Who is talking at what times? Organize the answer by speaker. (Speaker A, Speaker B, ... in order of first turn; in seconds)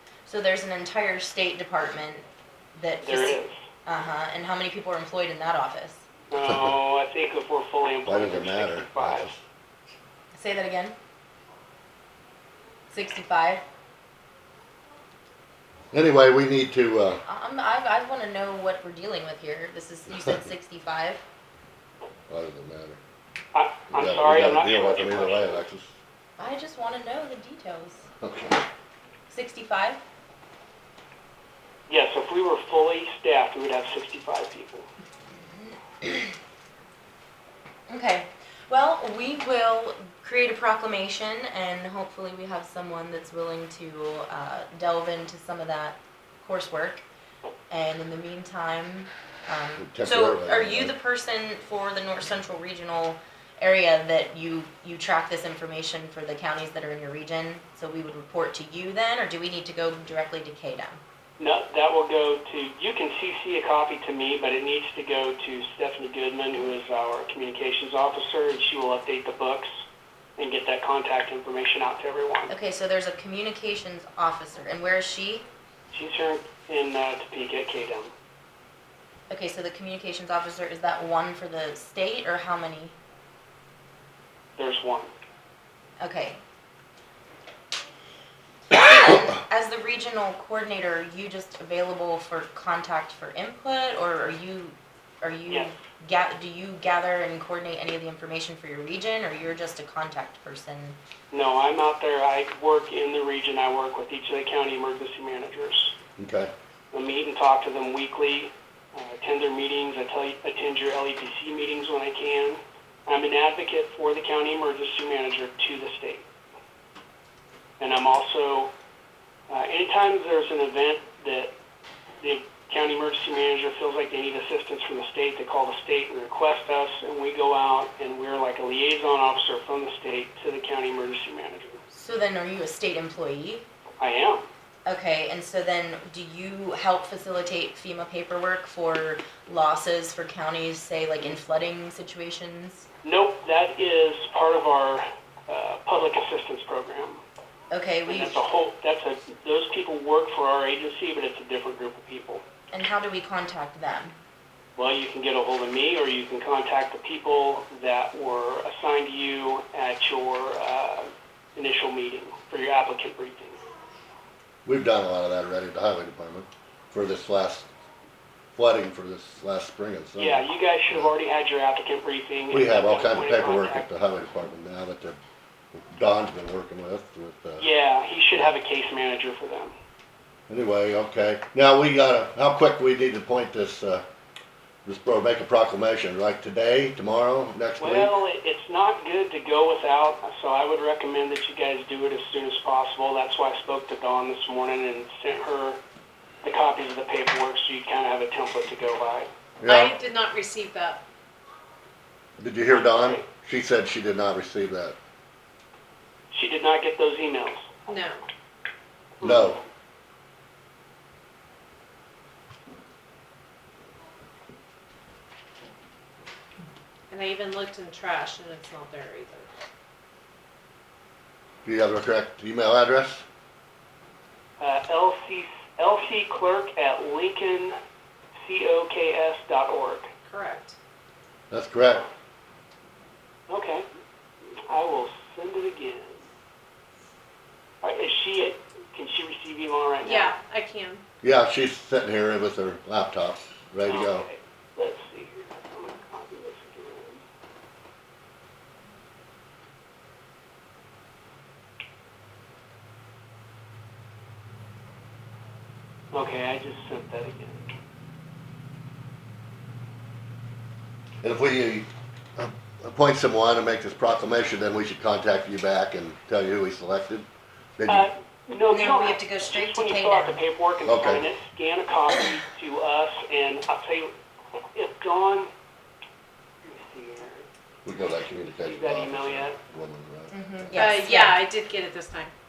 Speaker A: 0.3-2.2, 2.8-6.0, 10.3-10.9, 12.9-13.6, 17.3-21.2, 26.4-28.1, 29.3-30.0, 36.0-36.3, 37.9-47.0, 47.7-61.0, 72.5-75.5, 79.3-82.9, 86.0-86.4, 88.7-101.0, 131.9-133.7, 134.9-142.9, 147.7-148.4, 152.7-154.2, 268.7-270.4, 280.3-281.4
Speaker B: 3.0-3.5, 6.3-9.3, 23.5-25.6, 31.9-34.9, 61.4-69.7, 70.4-72.5, 75.9-78.1, 84.6-85.1, 101.3-106.0, 106.9-116.3, 117.8-118.7, 119.5-121.5, 122.2-131.8, 134.0-134.4, 143.0-147.2, 148.1-152.4, 154.8-163.6, 170.2-173.9, 177.6-179.7, 187.8-195.8, 196.4-199.3, 202.7-203.3, 206.3-207.8, 209.2-209.6, 224.6-227.8, 228.4-230.1, 233.5-233.9, 234.7-236.2, 237.8-240.3, 243.9-247.2, 256.1-257.7, 267.9-274.1, 274.7-275.5, 276.7-277.5, 278.6-279.6
Speaker C: 8.1-9.4, 15.9-17.2, 22.3-23.0, 23.9-25.9, 28.2-28.6, 49.8-50.9, 106.2-106.5, 164.7-167.7, 168.5-171.1, 172.5-175.2, 175.7-177.7, 180.5-184.0, 184.8-188.2, 199.6-200.0, 202.4-205.0, 209.2-209.6, 221.7-223.2, 231.5-232.1, 241.2-244.3, 261.2-267.3, 267.8-268.1, 270.9-271.3, 277.9-280.9
Speaker D: 199.7-201.0, 207.9-208.2, 217.1-219.5, 230.3-230.8, 240.0-241.0, 280.8-282.3